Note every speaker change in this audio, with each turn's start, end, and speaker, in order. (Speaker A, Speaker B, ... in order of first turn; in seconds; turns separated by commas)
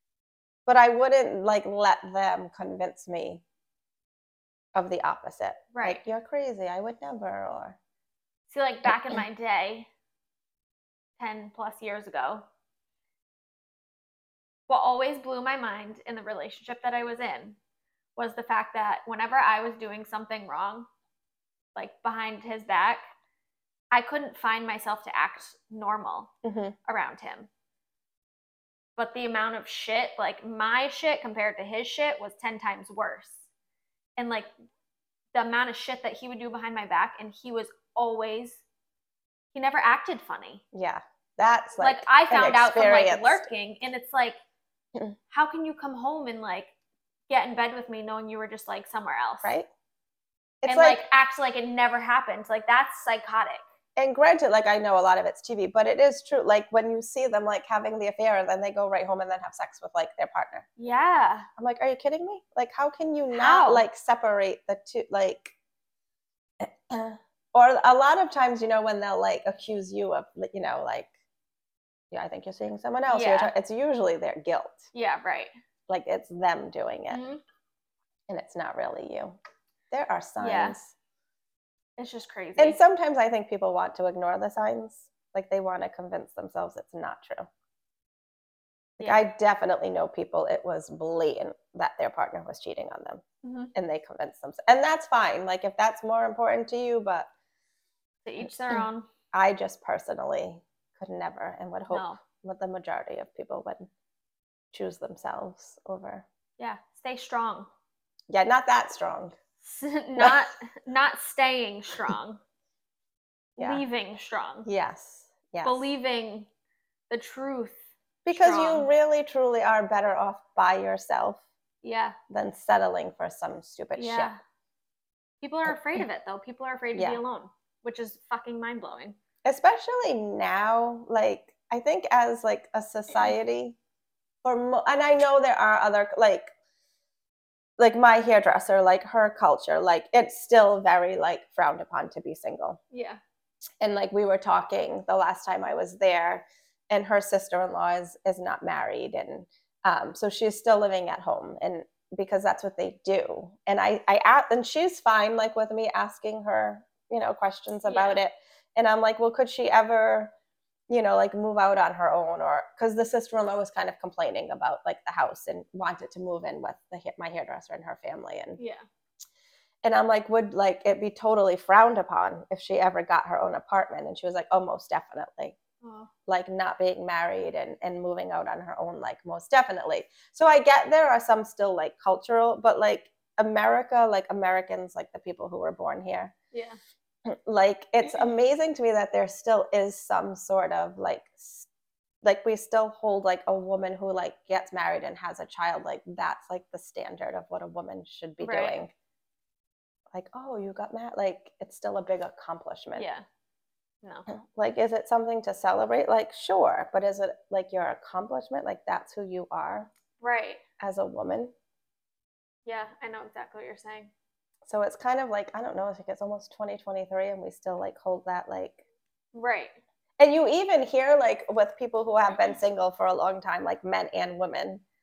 Speaker A: 0.7-3.4, Speaker A: 4.7-7.8, Speaker B: 5.7-6.0, Speaker B: 8.5-9.9, Speaker B: 11.2-12.4, Speaker B: 14.7-17.6, Speaker B: 18.2-20.9, Speaker B: 21.7-23.0, Speaker B: 23.9-26.3, Speaker A: 26.4-26.8, Speaker B: 26.9-27.5, Speaker B: 29.0-33.4, Speaker B: 34.2-34.5, Speaker B: 35.3-38.6, Speaker B: 39.5-40.6, Speaker A: 40.7-43.5, Speaker B: 41.8-44.4, Speaker B: 45.3-46.7, Speaker B: 47.3-49.5, Speaker A: 49.4-49.7, Speaker A: 50.6-51.0, Speaker B: 50.6-53.6, Speaker A: 54.0-60.6, Speaker B: 60.8-61.5, Speaker A: 61.6-65.5, Speaker B: 63.3-63.8, Speaker A: 66.6-71.1, Speaker A: 72.1-74.9, Speaker B: 73.1-73.5, Speaker B: 74.9-75.5, Speaker A: 75.9-77.2, Speaker B: 77.1-77.4, Speaker A: 78.3-79.4, Speaker A: 79.9-80.9, Speaker B: 80.4-80.8, Speaker B: 82.0-82.8, Speaker A: 82.6-87.5, Speaker A: 89.0-93.2, Speaker B: 93.4-93.7, Speaker A: 93.7-97.3, Speaker B: 98.2-99.1, Speaker A: 98.7-103.9, Speaker B: 101.9-102.2, Speaker A: 104.7-106.2, Speaker B: 106.6-107.7, Speaker A: 108.3-109.3, Speaker B: 109.6-112.4, Speaker A: 110.2-110.4, Speaker A: 113.6-113.8, Speaker B: 113.6-114.7, Speaker A: 114.7-115.8, Speaker B: 115.6-116.5, Speaker B: 117.1-117.8, Speaker A: 118.2-121.4, Speaker B: 118.3-118.9, Speaker B: 121.8-122.2, Speaker A: 122.3-124.3, Speaker B: 124.0-124.4, Speaker B: 125.4-129.2, Speaker A: 126.9-127.2, Speaker A: 129.4-133.8, Speaker A: 134.4-136.5, Speaker A: 137.8-142.8, Speaker B: 142.9-143.2, Speaker A: 143.8-160.3, Speaker B: 157.8-158.2, Speaker A: 160.9-168.6, Speaker B: 168.6-168.8, Speaker A: 169.8-175.6, Speaker B: 175.8-176.1, Speaker A: 176.2-186.3, Speaker B: 186.5-186.8, Speaker A: 187.2-191.7, Speaker A: 192.2-198.9, Speaker B: 198.4-198.8, Speaker A: 200.1-203.1, Speaker B: 202.9-203.2, Speaker A: 204.3-209.9, Speaker B: 210.2-210.6, Speaker A: 210.8-211.5, Speaker B: 212.7-214.1, Speaker A: 214.7-218.8, Speaker B: 219.3-219.7, Speaker A: 220.2-224.8